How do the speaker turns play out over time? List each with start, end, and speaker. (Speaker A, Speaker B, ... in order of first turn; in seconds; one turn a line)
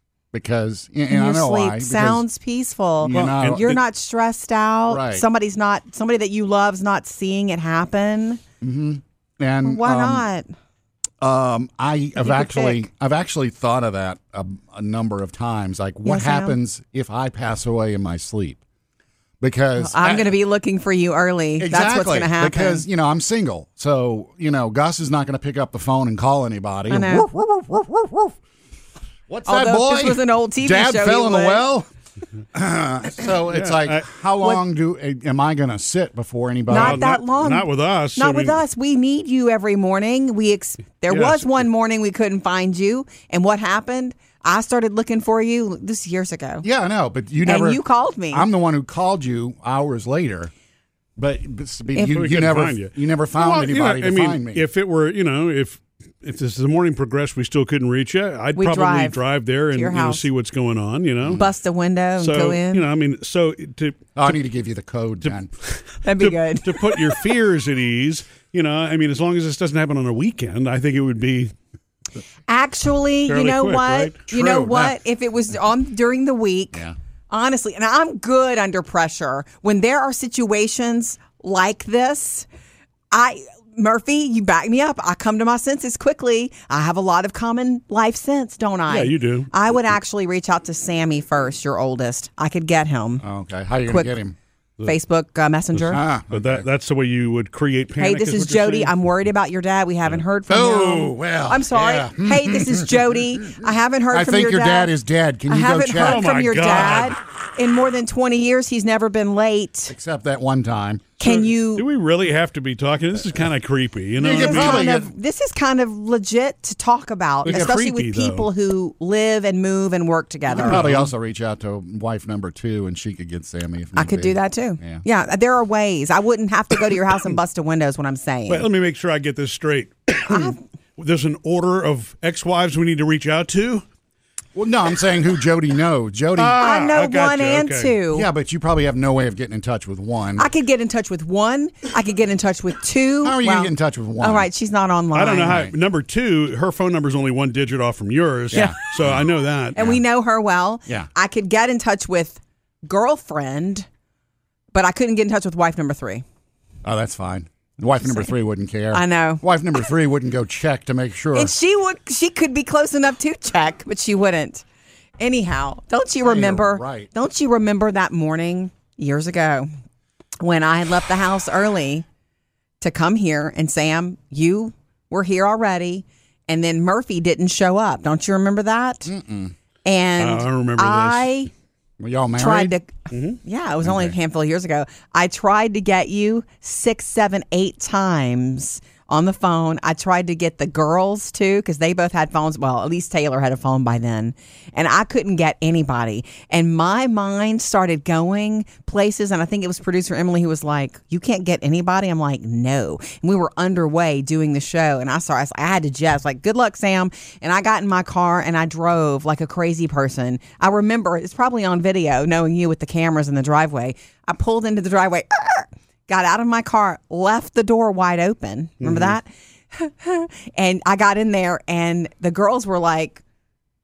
Speaker A: 0.3-2.2
Speaker B: 1.1-8.4
Speaker A: 3.0-3.7
Speaker C: 3.1-3.8
Speaker A: 4.9-5.2
Speaker A: 8.6-10.3
Speaker B: 9.6-10.5
Speaker A: 11.2-18.6
Speaker B: 12.2-12.8
Speaker B: 16.1-16.6
Speaker A: 19.4-20.3
Speaker B: 19.8-22.9
Speaker A: 21.6-28.3
Speaker B: 26.9-27.3
Speaker A: 29.3-31.9
Speaker B: 29.5-31.7
Speaker A: 32.5-37.0
Speaker C: 33.5-34.0
Speaker B: 36.7-46.6
Speaker C: 36.7-38.6
Speaker C: 41.1-41.5
Speaker A: 46.6-50.5
Speaker B: 47.5-48.5
Speaker A: 51.2-54.6
Speaker B: 52.0-52.2
Speaker C: 52.1-61.5
Speaker B: 58.6-60.3
Speaker B: 61.3-62.9
Speaker C: 62.2-64.1
Speaker A: 64.2-65.5
Speaker C: 65.2-71.5
Speaker B: 66.0-67.3
Speaker B: 72.5-82.5
Speaker C: 73.3-74.2
Speaker A: 74.3-75.0
Speaker B: 83.1-93.2
Speaker C: 88.9-89.5
Speaker A: 93.2-94.3
Speaker B: 93.9-94.1
Speaker B: 94.9-96.0
Speaker A: 95.9-96.7
Speaker C: 96.3-98.9
Speaker B: 98.0-104.9
Speaker A: 100.5-103.6
Speaker A: 104.1-106.3
Speaker B: 105.5-109.9
Speaker C: 106.0-107.2
Speaker A: 109.9-111.2
Speaker B: 111.2-111.8
Speaker C: 111.3-114.9
Speaker A: 114.2-115.1
Speaker B: 114.3-120.9
Speaker C: 117.4-118.5
Speaker C: 120.5-121.1
Speaker A: 120.5-125.0
Speaker B: 124.0-128.7
Speaker C: 128.5-133.8
Speaker B: 130.3-130.6
Speaker A: 134.6-136.6
Speaker C: 136.4-138.0
Speaker B: 136.6-138.3
Speaker A: 138.1-140.5
Speaker B: 140.4-145.7
Speaker A: 143.2-144.5
Speaker C: 145.1-149.8
Speaker A: 148.5-149.2
Speaker B: 148.5-148.8
Speaker B: 149.8-153.9
Speaker B: 154.7-156.2
Speaker A: 156.8-161.5
Speaker B: 158.9-159.4
Speaker B: 161.3-164.6
Speaker B: 165.2-169.7
Speaker A: 166.3-167.1
Speaker B: 170.4-172.1
Speaker B: 172.8-179.1
Speaker A: 179.1-179.5
Speaker B: 179.8-181.5
Speaker C: 180.2-181.4
Speaker A: 182.0-182.8
Speaker B: 182.4-223.2
Speaker C: 183.1-183.4
Speaker A: 183.8-184.2
Speaker C: 218.8-219.2